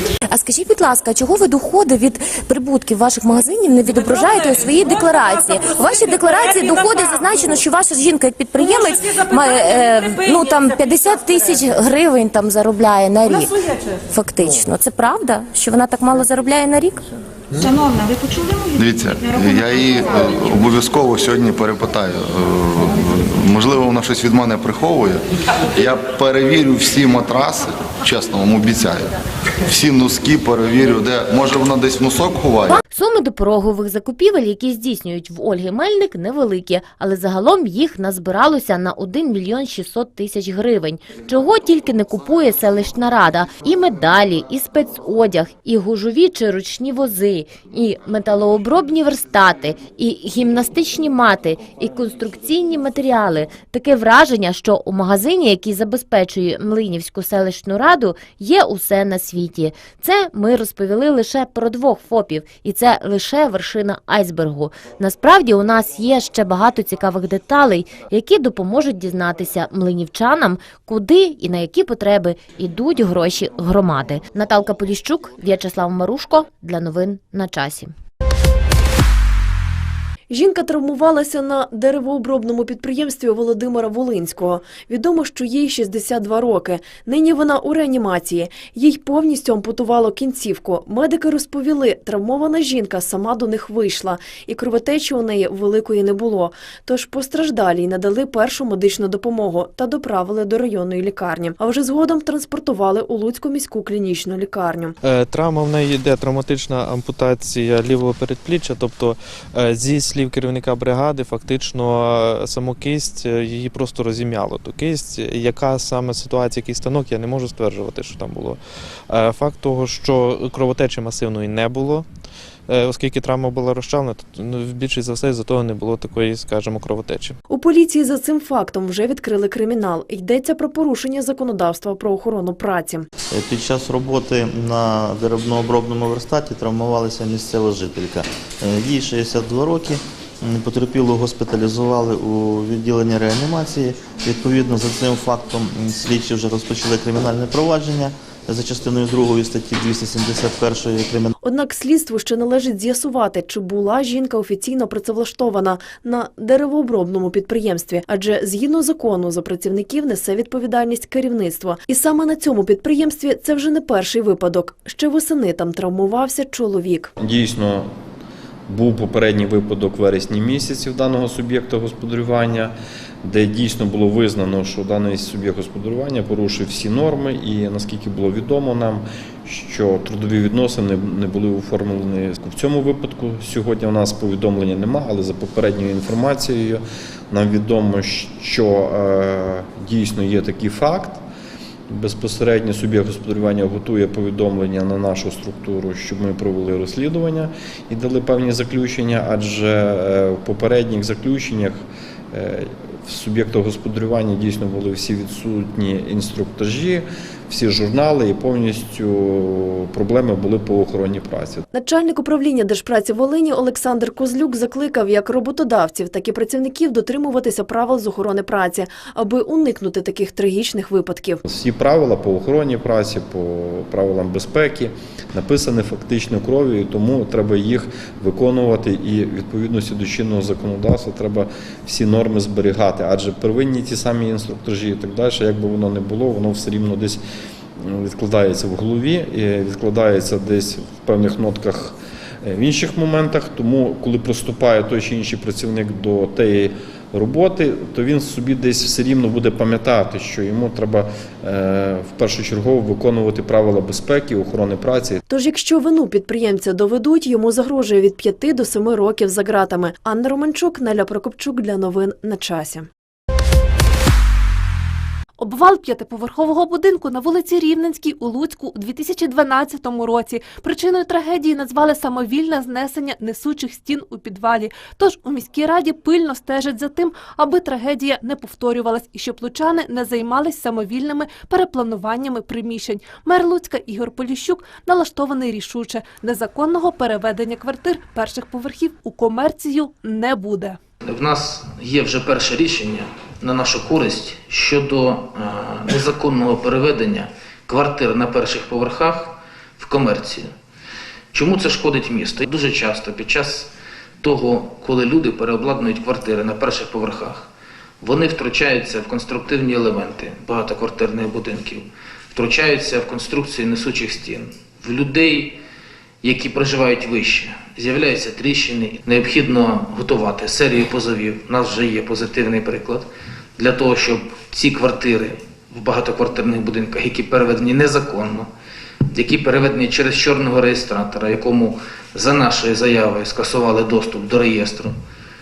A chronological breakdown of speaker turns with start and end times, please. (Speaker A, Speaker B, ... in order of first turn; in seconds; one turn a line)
Speaker A: 0.3-13.6
Speaker A: 14.1-17.0
Speaker B: 18.8-32.8
Speaker C: 32.7-77.9
Speaker D: 80.3-105.0
Speaker E: 105.0-122.1
Speaker E: 122.7-127.3
Speaker D: 127.5-133.1
Speaker F: 133.3-151.3
Speaker D: 151.4-167.1
Speaker G: 167.2-167.9
Speaker G: 168.7-191.2
Speaker G: 191.9-211.6
Speaker D: 211.7-221.4
Speaker G: 221.5-237.2
Speaker G: 237.8-255.2
Speaker D: 255.3-262.9
Speaker H: 265.4-290.8
Speaker I: 291.0-300.6
Speaker I: 301.3-307.5
Speaker I: 308.0-315.6
Speaker I: 316.2-328.5
Speaker I: 329.1-335.0